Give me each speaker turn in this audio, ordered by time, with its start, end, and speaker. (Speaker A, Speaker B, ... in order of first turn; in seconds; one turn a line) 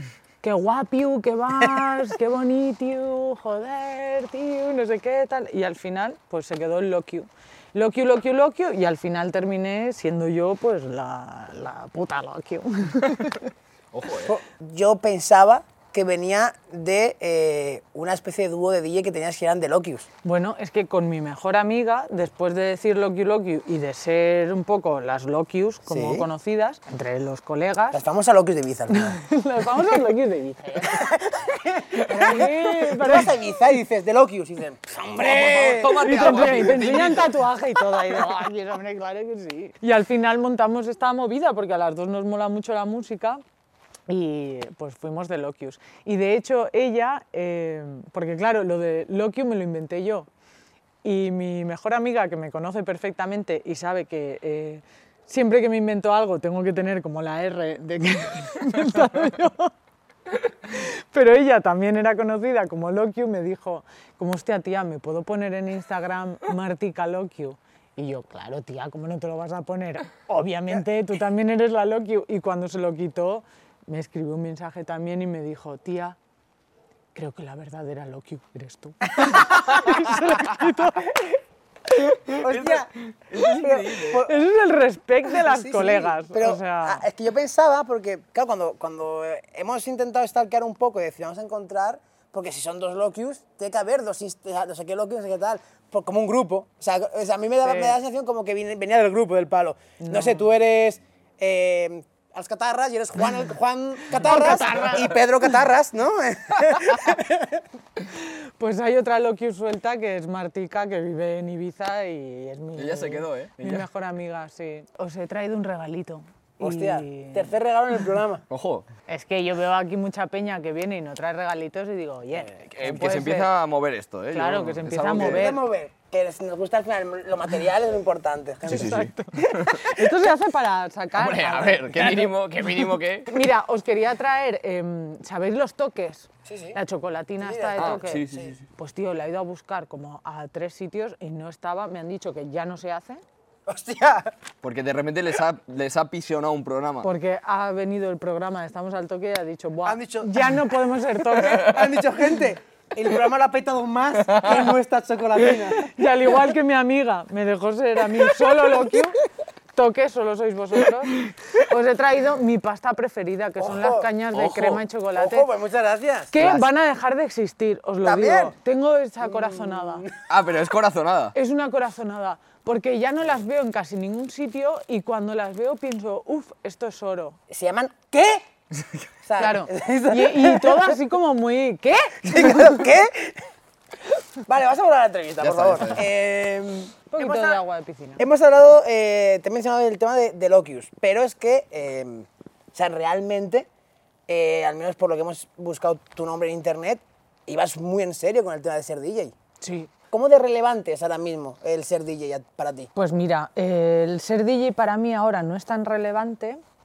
Speaker A: 0.4-13.5
Speaker B: 13.9-14.4
Speaker C: 14.2-20.1
Speaker A: 20.2-28.0
Speaker C: 25.9-26.3
Speaker C: 27.9-29.2
Speaker A: 28.9-31.1
Speaker C: 30.9-36.7
Speaker A: 32.0-33.4
Speaker B: 35.2-37.4
Speaker A: 35.4-43.4
Speaker A: 44.1-50.3
Speaker A: 51.0-59.7
Speaker A: 60.6-76.2
Speaker A: 77.2-81.3
Speaker C: 79.2-79.9
Speaker B: 82.4-84.3
Speaker C: 82.4-84.4
Speaker A: 84.2-87.0
Speaker C: 85.3-107.6
Speaker A: 97.7-98.0
Speaker A: 100.0-100.5
Speaker A: 104.2-105.0
Speaker A: 108.1-117.5
Speaker B: 112.8-113.9
Speaker C: 116.6-118.4
Speaker B: 118.5-118.9
Speaker A: 119.1-123.5
Speaker B: 122.5-125.5
Speaker A: 124.3-125.6
Speaker C: 125.1-129.0
Speaker A: 128.6-143.2
Speaker B: 128.7-129.9
Speaker B: 131.2-133.4
Speaker C: 136.4-136.8
Speaker C: 137.4-138.5
Speaker B: 137.8-138.6
Speaker C: 143.7-144.3
Speaker B: 144.6-147.1
Speaker A: 147.0-151.9
Speaker C: 149.8-150.3
Speaker C: 151.5-155.9
Speaker A: 155.9-159.2
Speaker A: 159.8-165.5
Speaker C: 163.6-164.1
Speaker B: 164.3-164.8
Speaker C: 165.2-166.3
Speaker A: 166.3-170.1
Speaker B: 166.4-166.7
Speaker C: 168.0-168.6
Speaker C: 169.2-170.1
Speaker B: 170.3-171.3
Speaker A: 171.3-177.4
Speaker C: 177.5-178.4
Speaker C: 179.2-181.0
Speaker A: 179.4-182.9
Speaker C: 182.2-183.5
Speaker C: 184.4-187.6
Speaker B: 185.4-186.1
Speaker A: 187.1-188.2
Speaker C: 188.2-193.7
Speaker C: 194.3-199.3
Speaker A: 199.6-199.9
Speaker C: 200.1-202.9
Speaker A: 202.9-206.6